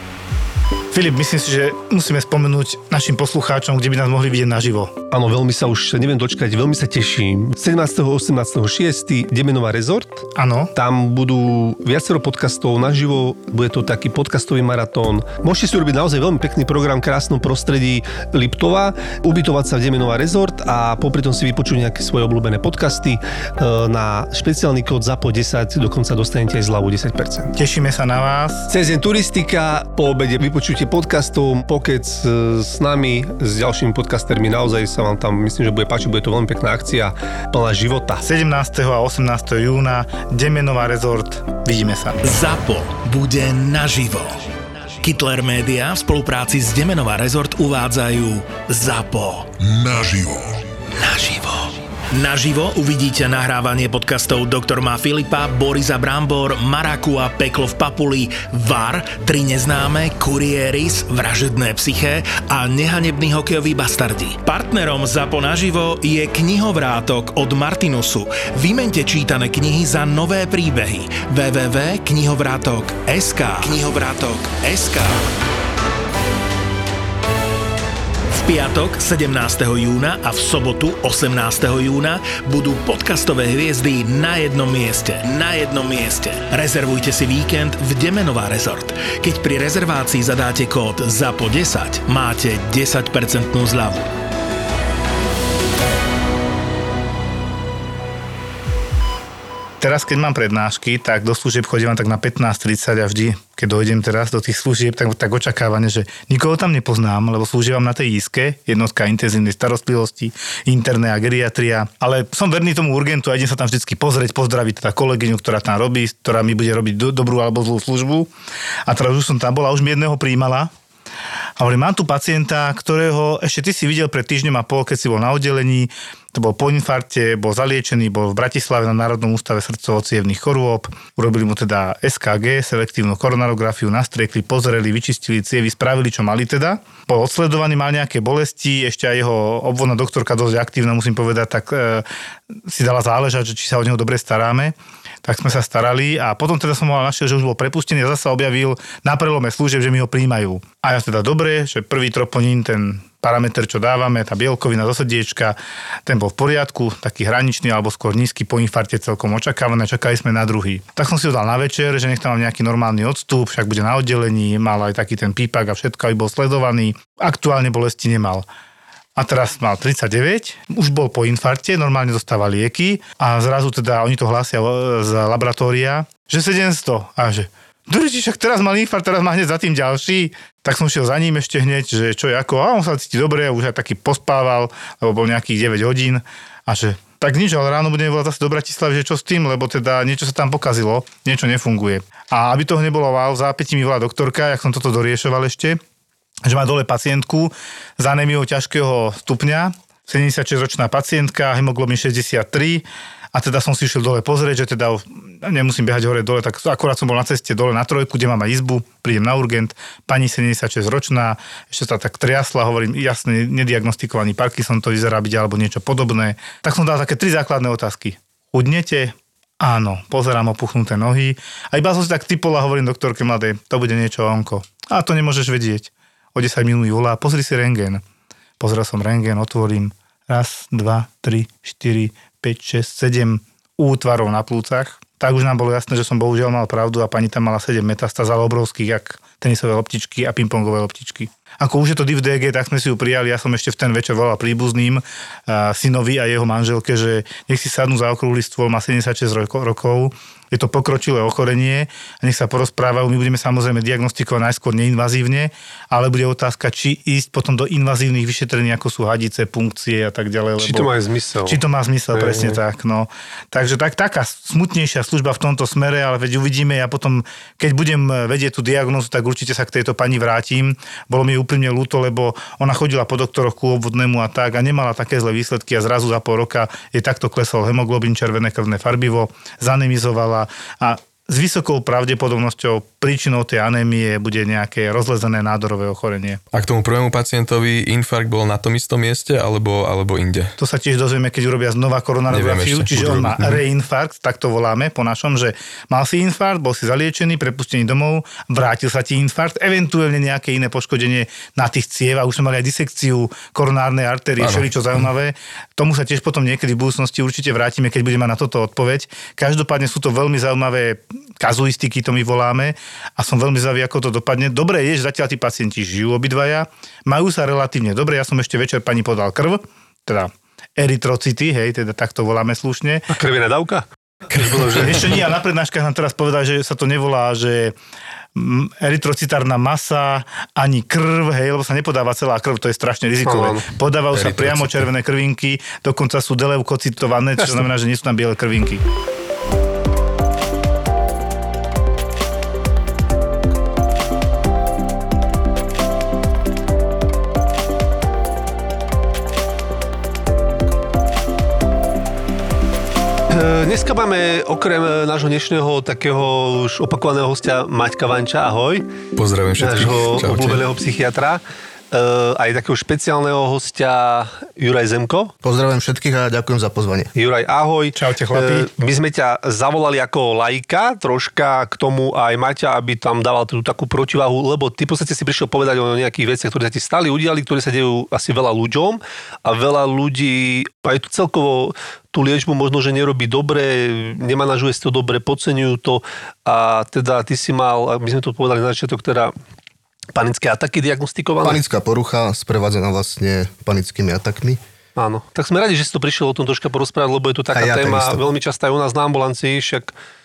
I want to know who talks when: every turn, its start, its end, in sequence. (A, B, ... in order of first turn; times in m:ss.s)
0:00.9-0:04.9 A
0:05.1-0:27.5 B
0:10.4-0:10.7 A
0:27.5-0:28.7 A
0:28.7-0:38.2 B
0:38.2-0:42.3 A
0:42.2-1:15.2 C
1:18.3-1:34.1 C
1:39.8-1:58.3 A
1:58.9-2:00.7 A
2:01.6-2:22.0 A
2:22.7-2:24.7 A
2:25.2-2:48.4 A
2:49.2-3:15.8 A
3:16.4-3:48.0 A
3:48.6-4:20.9 A
4:20.6-4:21.6 B
4:21.5-4:46.4 A
4:22.1-4:22.6 B
4:46.5-4:50.5 D
4:50.6-5:23.0 A
4:52.3-4:53.6 D
5:04.4-5:04.7 D
5:23.1-5:25.2 B
5:24.7-5:27.7 A
5:28.4-5:38.8 A
5:33.2-5:33.6 B
5:34.1-5:34.8 D
5:53.3-5:58.9 B
5:59.2-6:00.6 D
5:59.6-6:05.3 B
6:05.4-6:07.1 E
6:07.2-6:29.3 B
6:07.9-6:08.7 A
6:30.1-6:31.6 B
6:31.4-6:34.6 E
6:35.0-6:39.9 B
6:37.5-6:38.2 E